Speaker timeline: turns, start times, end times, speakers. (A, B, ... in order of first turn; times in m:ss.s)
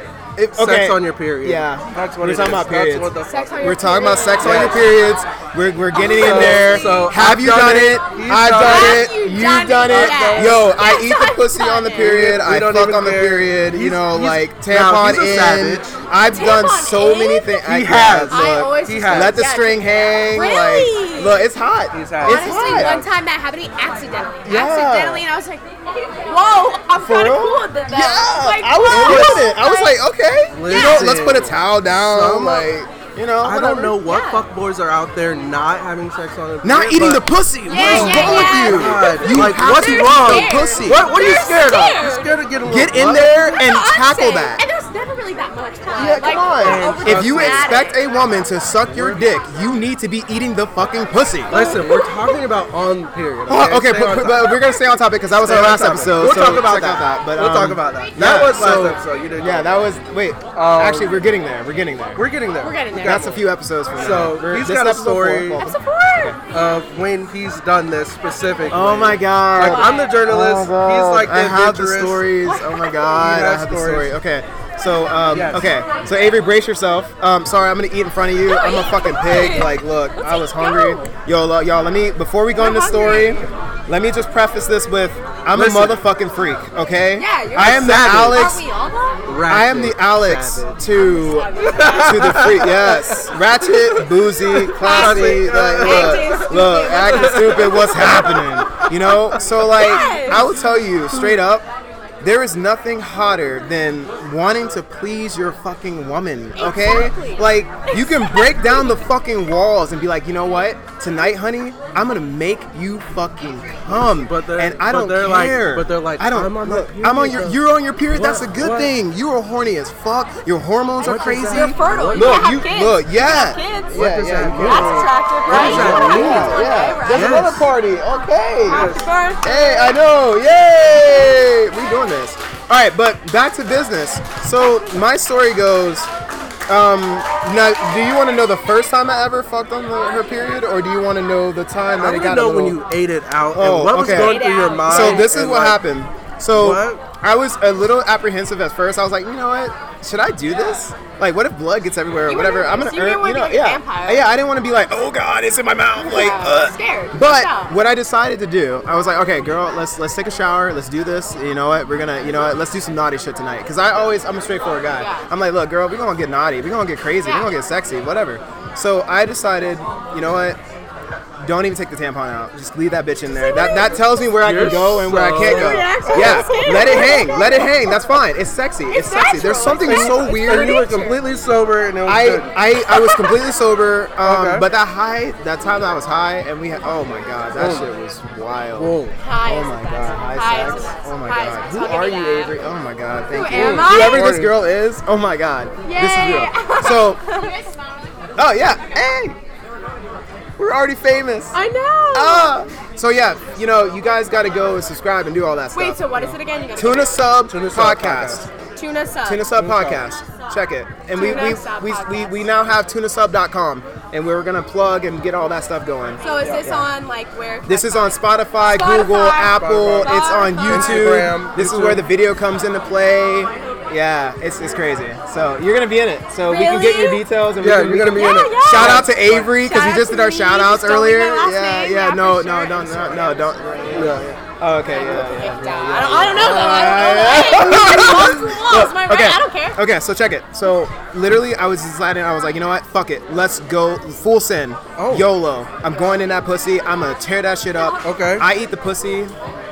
0:00.4-0:23.0 A
0:00.5-0:03.8 B
0:03.2-0:04.8 C
0:04.4-0:04.8 B
0:05.9-0:07.1 C
0:06.1-0:09.1 B
0:08.6-0:12.1 C
0:09.9-0:10.7 B
0:12.0-0:16.0 B
0:16.2-0:17.6 C
0:17.6-0:19.4 B
0:18.3-0:21.5 C
0:21.9-0:23.1 B
0:22.2-0:30.0 C
0:24.4-0:25.2 A
0:26.9-0:34.0 A
0:28.9-0:29.5 B
0:30.5-0:32.7 B
0:30.7-0:31.3 C
0:33.4-0:43.6 B
0:34.0-0:34.4 C
0:36.6-0:41.1 A
0:37.7-0:42.3 C
0:42.6-0:44.6 A
0:43.6-0:48.0 C
0:46.0-0:51.6 A
0:46.6-0:47.9 B
0:48.9-0:49.2 B
0:51.5-0:52.4 C
0:51.5-0:54.6 B
0:53.5-1:02.2 A
0:55.4-0:59.9 B
1:00.5-1:01.2 B
1:02.2-1:05.6 B
1:02.6-1:03.3 C
1:03.0-1:06.4 A
1:05.6-1:06.4 C
1:06.5-1:12.2 B
1:08.7-1:28.6 A
1:09.6-1:10.1 C
1:12.4-1:13.0 C
1:13.1-1:14.1 B
1:15.3-1:15.6 B
1:18.4-1:21.1 C
1:22.6-1:23.4 C
1:25.5-1:26.0 B
1:27.2-1:29.3 C
1:27.6-1:28.6 B
1:29.2-1:30.8 B
1:29.4-1:41.7 A
1:30.9-1:32.4 C
1:31.6-1:40.5 B
1:34.8-1:38.4 C
1:39.6-1:40.5 C
1:42.2-2:16.1 A
1:46.6-1:49.0 C
1:54.0-1:58.9 B
2:01.0-2:02.6 B
2:01.4-2:04.0 C
2:03.9-2:07.7 B
2:04.6-2:07.4 C
2:08.6-2:10.0 C
2:08.7-2:09.1 B
2:16.7-2:22.8 A
2:22.0-2:25.8 B
2:23.5-2:50.6 A
2:24.1-2:25.3 C
2:26.5-2:27.0 B
2:32.3-2:34.3 C
2:36.0-2:37.7 C
2:45.0-2:45.2 C
2:47.2-2:47.6 C
2:51.4-3:00.8 A
2:53.3-2:54.0 C
2:54.4-2:56.9 B
2:55.4-2:58.0 C
2:58.9-3:01.2 C
2:59.8-3:02.5 B
3:02.0-3:17.2 A
3:02.9-3:03.2 C
3:04.2-3:04.6 B
3:07.6-3:07.9 B
3:08.7-3:09.2 B
3:09.2-3:12.5 C
3:13.3-3:14.3 C
3:13.5-3:14.6 B
3:15.8-3:17.6 C
3:18.4-3:19.4 A
3:20.6-3:21.6 A
3:21.5-3:22.6 C
3:22.1-3:26.2 A
3:25.7-3:27.2 C
3:26.8-3:28.5 A
3:27.5-3:28.4 B
3:28.7-3:29.5 C
3:29.2-3:36.9 A
3:29.5-3:30.0 B
3:31.2-3:32.5 C
3:36.2-3:41.1 C
3:37.6-4:09.3 A
3:39.5-3:42.0 B
3:46.5-3:47.2 C
3:47.6-3:49.5 B
3:48.1-3:54.2 C
3:53.9-3:54.4 B
3:54.9-3:59.8 C
4:05.0-4:05.3 B
4:08.0-4:08.5 B